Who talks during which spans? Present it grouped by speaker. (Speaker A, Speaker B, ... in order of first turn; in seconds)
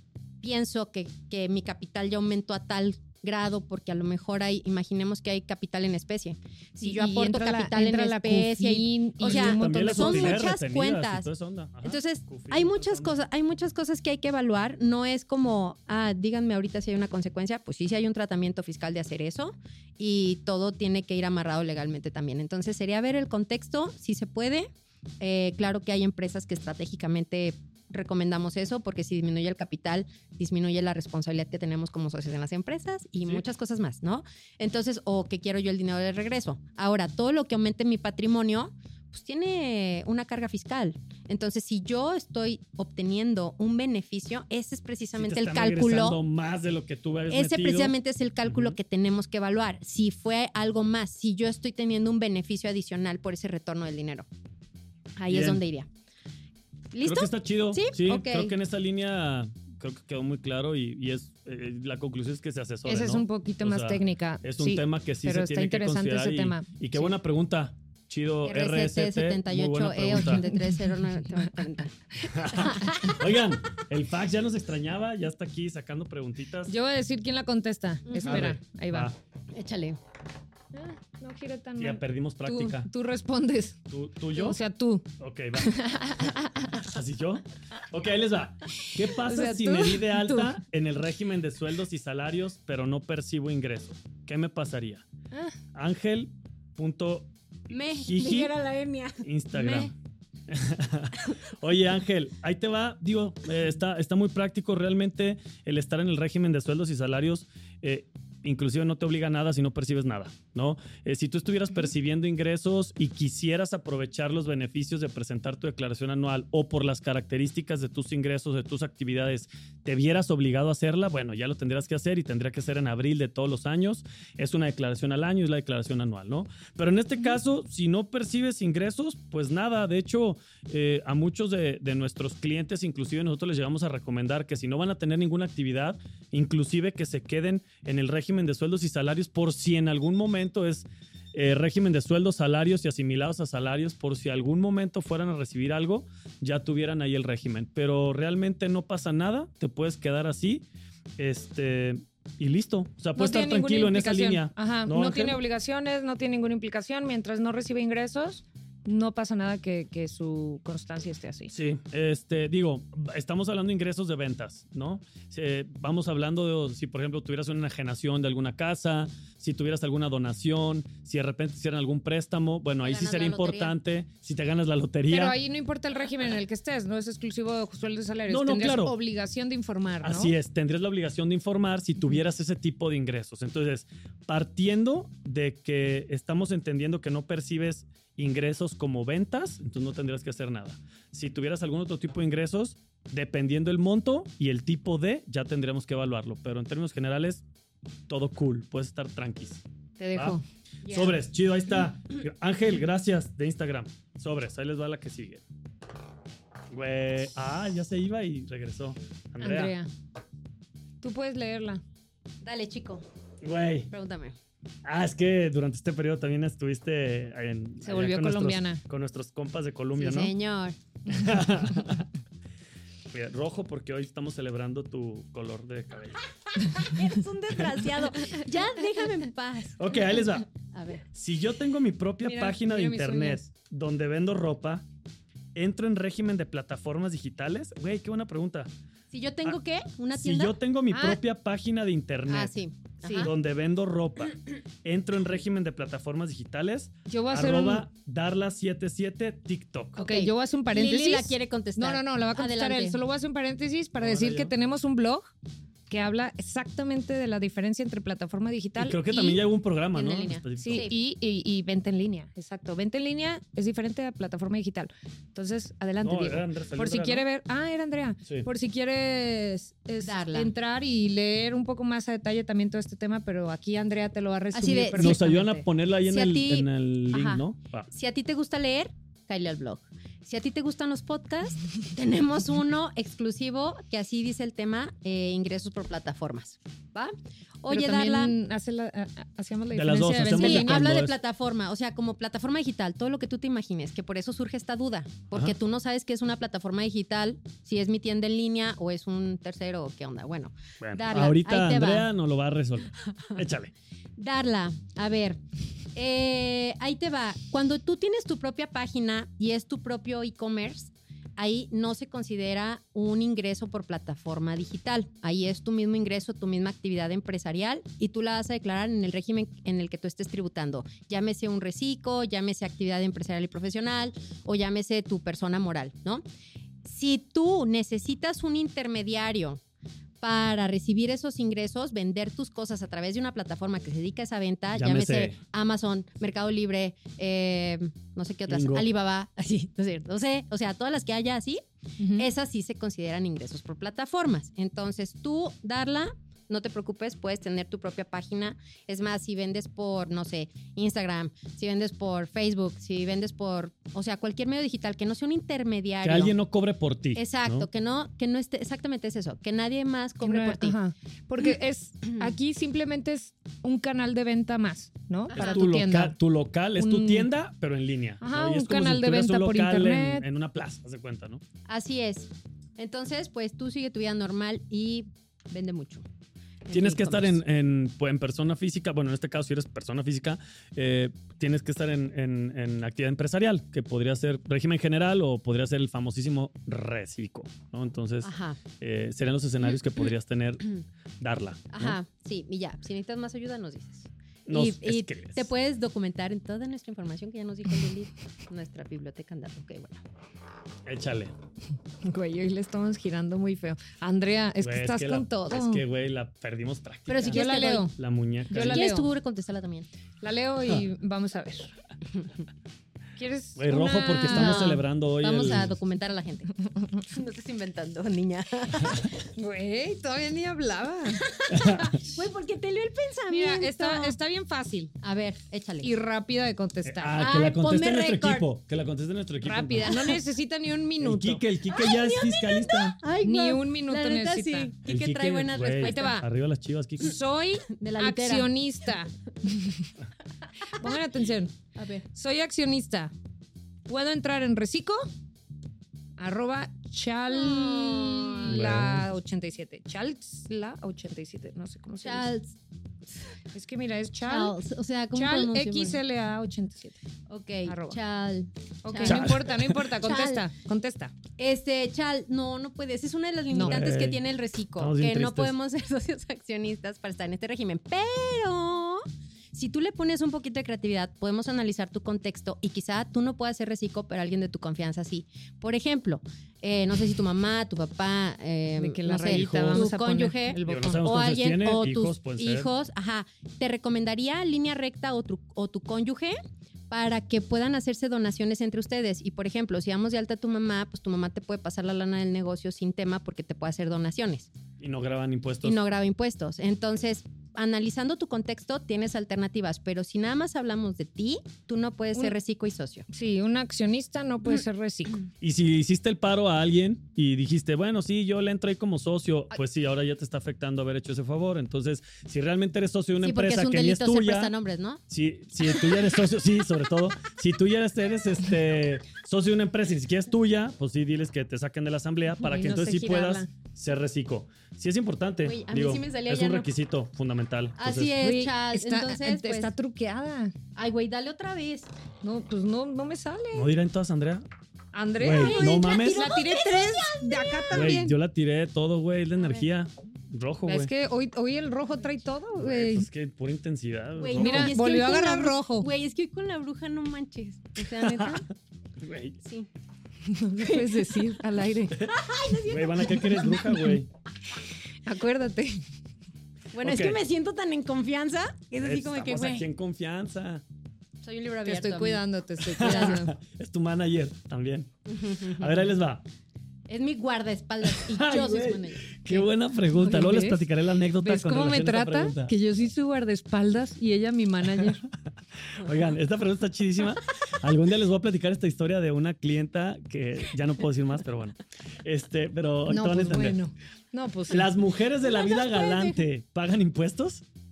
Speaker A: 0.4-11.3, 11.8-24.7, 25.2-46.2, 47.3-54.3, 55.2-55.9, 56.9-58.5, 68.5-71.9, 72.5-73.2, 78.1-78.4, 79.5-80.0, 97.7-99.9, 172.8-173.8, 200.9-201.1, 212.4-213.1, 213.9-214.4, 220.0-220.8, 226.6-231.0, 239.1-240.6, 242.3-243.3, 250.0-253.0, 259.9-260.9, 270.0-270.5, 274.5-275.3, 276.1-288.3, 290.2-302.1, 304.2-305.4, 305.9-326.2, 326.9-329.6, 330.2-341.6, 342.1-356.3, 357.2-360.8, 365.3-365.6, 371.7-376.1, 376.6-377.4, 388.2-388.6, 391.7-400.0, 407.1-407.9, 408.5-409.9, 414.3-419.2, 421.3-424.2, 425.0-425.9, 427.2-428.5, 431.7-436.2, 437.7-438.5, 441.8-442.1, 447.3-448.6, 452.0-452.6, 454.2-456.0, 457.3-459.3, 460.0-460.5, 461.4-486.4, 486.9-494.5, 495.6-503.1, 513.2-515.0, 525.4-526.7, 527.8-529.7, 530.8-531.9, 535.3-538.0, 544.2-548.5, 549.4-549.7, 550.6-551.3, 552.0-553.6, 556.7-559.7, 561.2-562.2, 562.8-563.1, 565.1-565.8, 566.9-569.5, 585.2-586.2
Speaker B: 6.8-10.4, 62.9-67.1, 70.3-71.6, 76.7-79.1, 80.7-83.8, 84.3-85.0, 85.6-86.8, 89.1-90.5, 153.2-161.5, 175.1-180.3, 200.0-200.4, 209.4-209.9, 211.0-211.8, 217.8-218.8, 232.2-233.5, 240.9-241.2, 243.0-243.3, 247.1-247.9, 250.0-255.3, 255.9-259.4, 260.6-275.6, 287.7-290.9, 342.0-342.3, 360.2-366.1, 366.8-367.3, 368.2-370.3, 402.0-405.8, 407.3-407.9, 408.5-409.1, 410.2-411.7, 413.2-414.8, 419.4-421.3, 423.3-424.9, 425.8-427.2, 429.4-431.4, 433.2-434.7, 435.8-436.3, 437.0-439.9, 440.7-441.6, 442.1-443.1, 443.9-445.1, 446.2-452.3, 453.5-454.6, 455.1-457.0, 457.7-458.0, 458.9-461.1, 463.5-463.8, 478.8-481.0, 503.1-505.2, 522.4-523.5, 528.2-530.5, 532.2-533.7, 534.9-538.2, 540.6-543.1, 544.4-545.9, 550.3-552.1, 553.4-553.8, 555.1-555.8, 561.6-563.4, 569.9-570.7, 571.2-575.0, 582.9-584.7
Speaker C: 9.2-13.2, 45.2-48.0, 48.5-48.8, 55.3-55.6, 57.0-70.5, 72.2-76.7, 78.2-79.2, 81.8-82.9, 83.9-84.6, 85.2-85.7, 86.7-95.0, 95.7-97.3, 97.9-98.5, 99.2-99.9, 100.5-150.7, 151.2-155.4, 161.5-175.4, 178.3-178.9, 180.0-197.4, 198.1-199.6, 200.2-205.4, 206.7-209.8, 213.4-213.9, 214.8-220.3, 221.1-222.1, 223.1-226.2, 229.8-230.5, 231.1-234.8, 235.6-238.7, 240.1-242.5, 243.2-250.0, 254.0-254.5, 258.8-260.9, 266.0-267.2, 275.0-277.9, 289.7-291.2, 300.8-303.7, 334.8-335.4, 338.5-338.9, 356.0-357.7, 365.3-371.4, 376.7-390.7, 391.2-392.0, 394.5-395.5, 400.9-401.3, 404.6-408.9, 413.6-415.7, 421.5-422.0, 426.8-430.1, 431.0-433.0, 434.9-437.2, 448.5-449.1, 459.0-459.8, 463.5-464.2, 464.8-465.5, 479.2-479.9, 480.7-482.7, 494.8-495.8, 505.4-514.5, 515.1-528.1, 533.5-534.4, 535.2-536.3, 537.7-540.9, 542.6-544.8, 547.9-548.4, 549.0-549.4, 552.6-554.1, 556.8-557.2, 558.8-560.6, 562.7-564.9, 565.5-566.2, 567.8-572.5, 575.6-583.6, 584.5-587.5